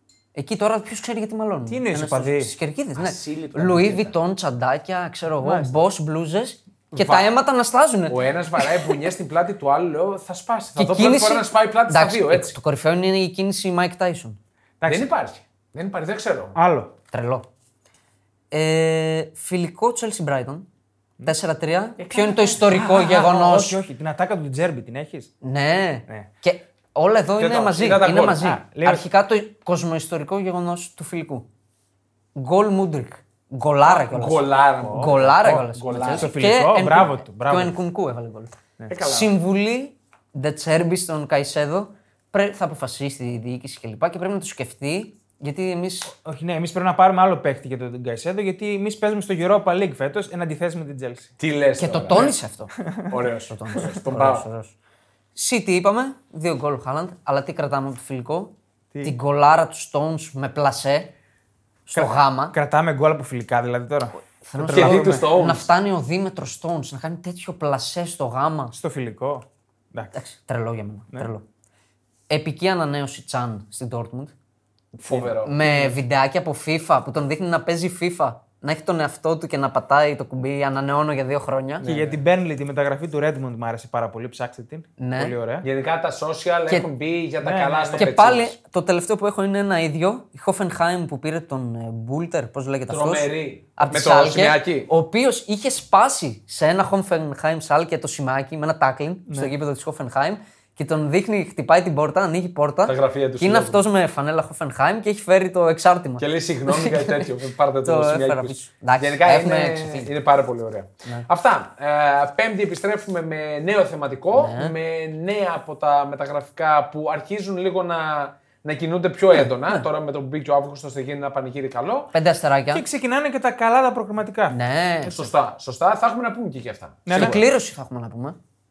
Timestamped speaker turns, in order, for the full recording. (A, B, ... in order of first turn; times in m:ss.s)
0:00.3-0:08.9 A
0:01.7-0:02.5 B
0:02.9-0:04.2 C
0:05.4-0:05.8 B
0:06.9-0:07.3 C
0:08.1-0:12.6 C
0:10.8-0:14.4 A
0:14.8-0:15.1 B
0:14.8-0:16.6 C
0:16.5-0:16.9 B
0:17.1-0:17.5 A
0:18.5-0:20.7 A
0:21.2-0:23.8 A
0:22.0-0:22.9 C
0:22.6-0:25.3 B
0:25.4-0:31.4 A
0:27.4-0:28.5 C
0:28.4-0:29.0 B
0:32.3-0:46.1 A
0:33.8-0:36.4 C
0:34.8-0:37.7 B
0:38.9-0:39.4 C
0:46.1-0:51.3 B
0:51.4-0:52.4 C
0:51.8-0:52.7 A
0:52.8-0:53.1 B
0:53.1-0:54.4 C
0:53.4-0:54.7 A
0:55.3-1:01.1 A
1:01.8-1:02.5 A
1:01.9-1:05.2 B
1:04.4-1:08.7 A
1:04.7-1:05.7 C
1:08.7-1:10.2 B
1:10.1-1:11.4 A
1:12.3-1:14.3 A
1:15.0-1:15.8 C
1:15.1-1:21.9 A
1:21.8-1:22.2 C
1:21.8-1:25.6 B
1:25.0-1:25.3 A
1:25.6-1:28.5 C
1:27.4-1:28.2 B
1:28.0-1:47.2 A
1:32.9-1:34.9 C
1:39.3-1:39.5 B
1:42.8-1:43.9 C
1:46.2-2:02.1 C
1:47.8-1:50.1 A
1:54.3-1:54.7 A
1:59.3-1:59.8 A
2:02.1-2:02.8 A
2:02.7-2:04.6 B
2:04.5-2:05.3 A
2:05.0-2:07.4 C
2:07.0-2:07.4 B
2:07.1-2:08.4 A